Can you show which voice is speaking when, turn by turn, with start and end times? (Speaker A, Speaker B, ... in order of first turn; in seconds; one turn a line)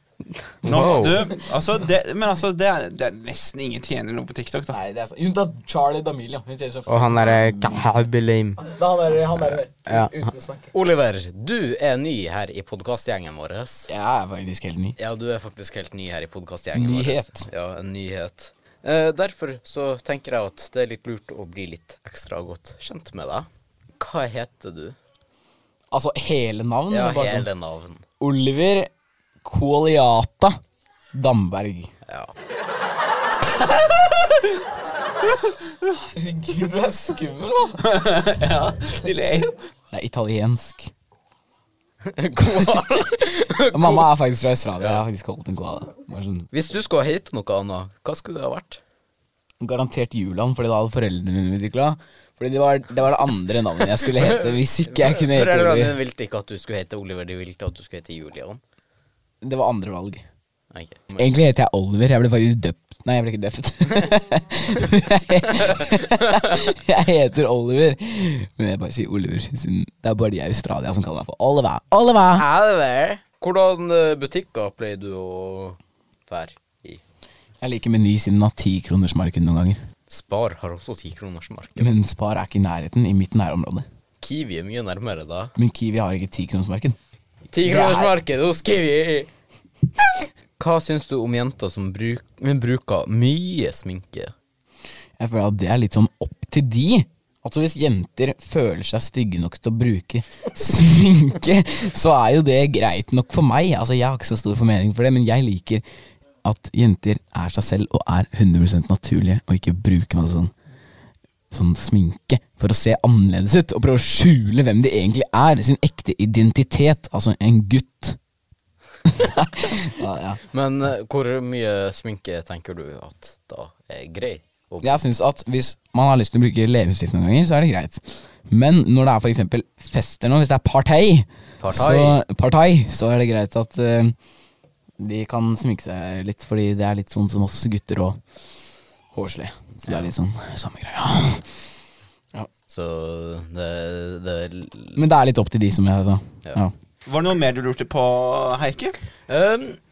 Speaker A: 0.3-1.3
Speaker B: 0.7-4.8
Speaker C: 4.7-7.9
Speaker A: 6.9-8.6
Speaker C: 8.6-10.7
Speaker D: 10.7-13.9
Speaker C: 13.9-15.0
Speaker D: 15.0-23.5
Speaker C: 16.7-17.5
Speaker D: 24.0-25.0
Speaker C: 25.9-27.5
Speaker D: 26.9-28.0
Speaker C: 28.2-28.9
Speaker C: 29.4-30.6
Speaker C: 31.1-31.9
Speaker D: 32.1-32.3
Speaker C: 35.9-38.0
Speaker B: 37.9-39.6
Speaker C: 39.9-40.9
Speaker D: 42.1-44.1
Speaker C: 43.7-46.5
Speaker D: 46.5-48.8
Speaker C: 49.6-56.0
Speaker D: 54.0-58.6
Speaker C: 59.4-60.2
Speaker D: 60.7-61.3
Speaker C: 61.2-72.5
Speaker D: 65.7-66.6
Speaker D: 72.3-77.0
Speaker C: 77.6-79.8
Speaker D: 80.1-81.9
Speaker C: 81.8-83.9
Speaker D: 84.2-85.5
Speaker C: 85.6-87.0
Speaker D: 87.5-89.3
Speaker C: 87.7-88.2
Speaker D: 90.6-94.3
Speaker C: 95.2-105.8
Speaker C: 106.4-110.5
Speaker C: 111.5-118.2
Speaker C: 119.1-120.4
Speaker D: 120.5-125.0
Speaker C: 124.8-134.2
Speaker D: 131.6-132.2
Speaker C: 135.0-138.2
Speaker C: 139.1-141.6
Speaker D: 139.9-140.1
Speaker D: 142.7-145.0
Speaker C: 145.0-146.7
Speaker B: 147.1-149.0
Speaker D: 149.3-149.8